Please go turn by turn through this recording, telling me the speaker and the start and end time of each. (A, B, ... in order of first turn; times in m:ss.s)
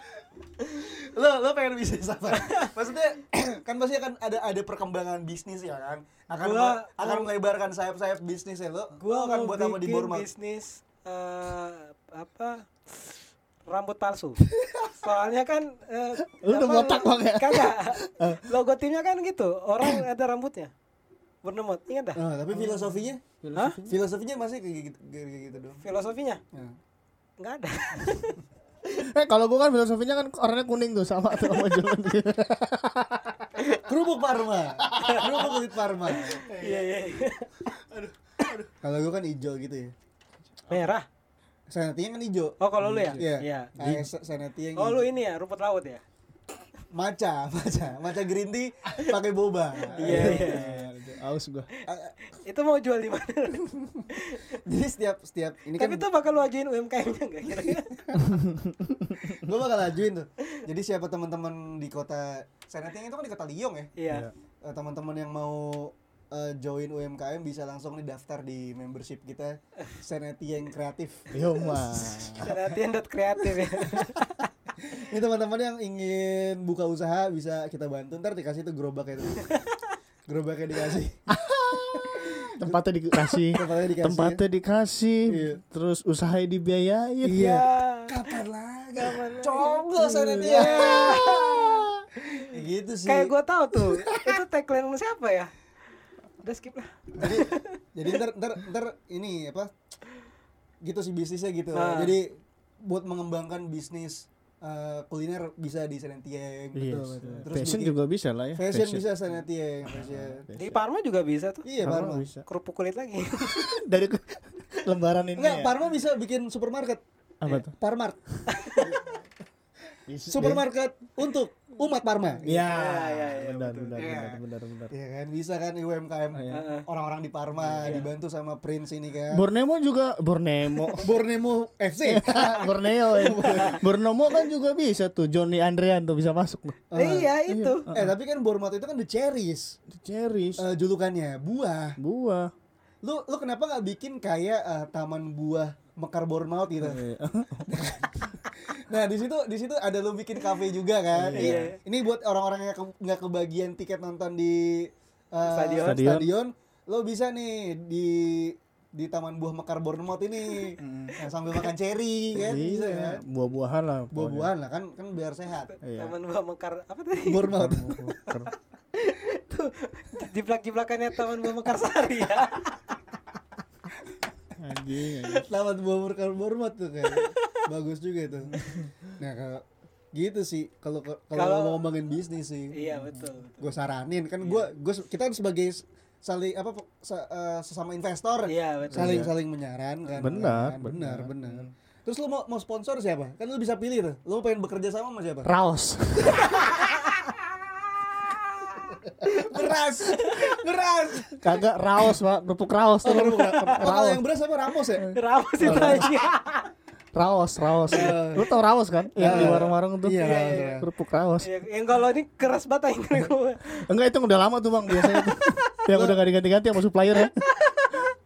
0:00.6-0:10.3 A
0:02.4-0:02.7 B
0:06.4-0:07.3 B
0:09.0-0:20.7 B
0:16.2-0:18.5 C
0:21.4-0:23.0 B
0:22.2-0:23.2 A
0:23.4-0:24.0 C
0:23.6-0:23.8 B
0:23.8-0:25.8 A
0:25.8-0:26.4 B
0:27.4-0:29.0 B
0:29.0-0:33.5 C
0:33.7-0:36.5 A
0:34.9-0:37.7 B
0:35.0-0:35.4 C
0:36.5-0:36.9 C
0:38.8-0:39.9 A
0:40.7-0:41.1 B
0:41.7-0:42.6 A
0:42.6-0:43.7 B
0:42.8-0:43.2 C
0:43.1-0:45.1 A
0:43.8-0:44.1 C
0:44.8-0:46.0 B
0:46.9-0:50.7 A
0:49.9-0:51.7 C
0:49.9-0:50.9 B
0:51.8-0:54.6 B
0:51.9-0:52.2 A
0:54.0-0:56.1 A
0:55.8-0:58.0 B
0:57.7-0:58.4 A
0:58.4-0:59.1 C
0:59.2-1:03.9 A
1:04.0-1:04.3 B
1:04.6-1:12.5 A
1:11.3-1:12.6 C
1:12.4-1:14.5 B
1:13.8-1:14.2 A
1:14.8-1:19.6 A
1:19.4-1:19.9 B
1:20.3-1:21.2 A
1:21.3-1:27.6 C
1:21.9-1:24.4 A
1:25.3-1:25.6 A
1:27.2-1:33.3 A
1:27.3-1:28.4 B
1:29.0-1:29.9 B
1:30.0-1:31.7 C
1:30.4-1:32.5 B
1:33.1-1:35.6 B
1:36.4-1:37.8 B
1:37.2-1:39.7 A
1:40.8-1:48.0 A
1:41.7-1:42.2 B
1:46.8-1:49.1 C
1:46.8-1:47.5 B
1:48.6-1:50.5 A
1:49.9-1:50.8 C
1:50.6-1:51.7 B
1:51.6-1:52.3 A
1:51.8-1:52.4 C
1:52.5-1:53.7 B
1:53.5-1:55.8 C
1:55.4-1:57.0 A
1:57.4-1:57.7 C
1:57.8-1:59.0 A
1:58.3-1:58.7 C
1:58.5-1:59.2 B
2:00.1-2:00.6 C
2:00.3-2:02.6 A
2:02.4-2:04.9 C
2:02.5-2:04.0 B
2:04.0-2:09.5 A
2:06.3-2:06.7 C
2:06.5-2:06.9 B
2:07.6-2:08.1 C
2:09.3-2:11.1 C
2:11.0-2:13.8 A
2:12.0-2:16.8 C
2:13.2-2:13.8 B
2:16.9-2:17.3 A
2:17.0-2:17.9 B
2:17.5-2:18.1 C
2:17.9-2:19.8 A
2:19.9-2:20.6 C
2:20.6-2:22.0 A
2:22.0-2:22.5 C
2:23.0-2:27.0 A
2:26.8-2:27.7 C
2:27.7-2:43.2 A
2:31.1-2:31.8 C
2:31.3-2:31.8 B
2:35.4-2:36.0 B
2:35.8-2:36.3 C
2:40.8-2:41.2 C
2:42.4-2:44.5 C
2:44.1-2:45.7 A
2:45.8-2:46.2 C
2:45.9-2:47.5 B
2:47.3-2:48.0 A
2:47.5-2:48.5 C
2:48.3-2:53.0 B
2:54.6-2:55.5 C
2:55.4-2:58.6 A
2:57.1-2:57.6 B
2:59.2-3:02.8 A
3:01.3-3:01.8 B
3:02.7-3:03.7 B
3:02.9-3:03.3 C
3:03.6-3:15.5 A
3:08.5-3:09.3 B
3:08.9-3:09.3 C
3:10.2-3:11.7 C
3:15.4-3:16.7 C
3:16.3-3:17.6 B
3:18.1-3:18.9 B
3:19.1-3:21.4 A
3:20.1-3:20.5 B
3:21.4-3:24.2 C
3:23.0-3:26.1 A
3:23.4-3:23.8 B
3:25.1-3:26.7 B
3:25.6-3:26.1 C
3:27.2-3:31.5 C
3:27.9-3:28.5 A
3:29.2-3:30.8 A
3:29.2-3:30.8 B
3:31.4-3:33.9 B
3:33.9-3:37.4 C
3:34.9-3:35.6 B
3:35.9-3:36.2 A
3:37.2-3:38.1 B